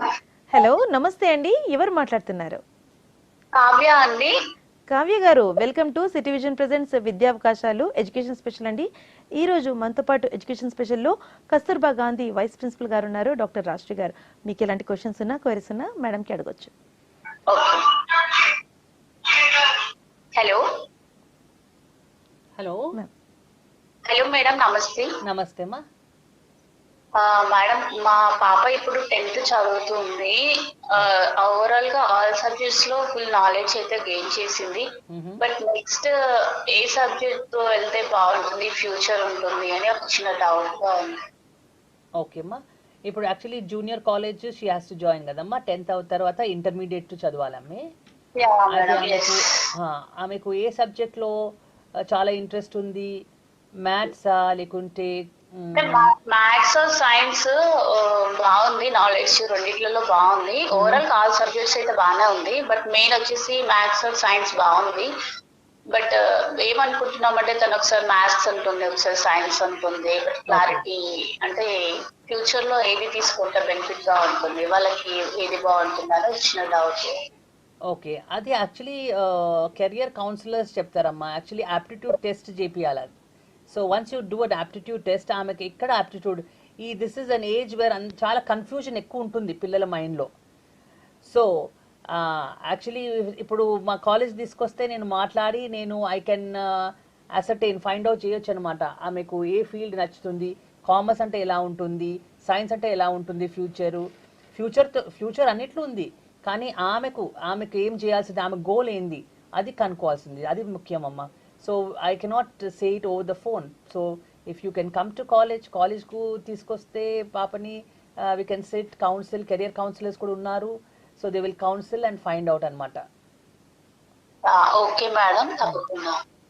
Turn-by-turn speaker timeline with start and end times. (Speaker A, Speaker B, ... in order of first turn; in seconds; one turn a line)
Speaker A: 0.5-2.6
Speaker B: 3.6-4.3
Speaker A: 4.9-8.9
Speaker A: 9.4-16.7
Speaker B: 17.5-17.8
Speaker B: 24.1-25.1
Speaker C: 25.2-25.8
Speaker B: 27.2-30.4
Speaker B: 30.9-34.9
Speaker C: 35.1-35.4
Speaker B: 35.4-36.1
Speaker B: 36.7-41.1
Speaker C: 42.2-47.8
Speaker B: 48.4-49.5
Speaker C: 48.7-51.3
Speaker C: 52.1-53.1
Speaker C: 53.8-56.1
Speaker B: 55.8-65.1
Speaker C: 60.7-61.0
Speaker B: 65.9-71.7
Speaker C: 70.5-70.8
Speaker B: 72.3-77.1
Speaker C: 77.9-83.1
Speaker C: 83.7-90.3
Speaker C: 92.1-104.0
Speaker C: 104.5-117.8
Speaker C: 118.3-123.0
Speaker B: 124.5-126.2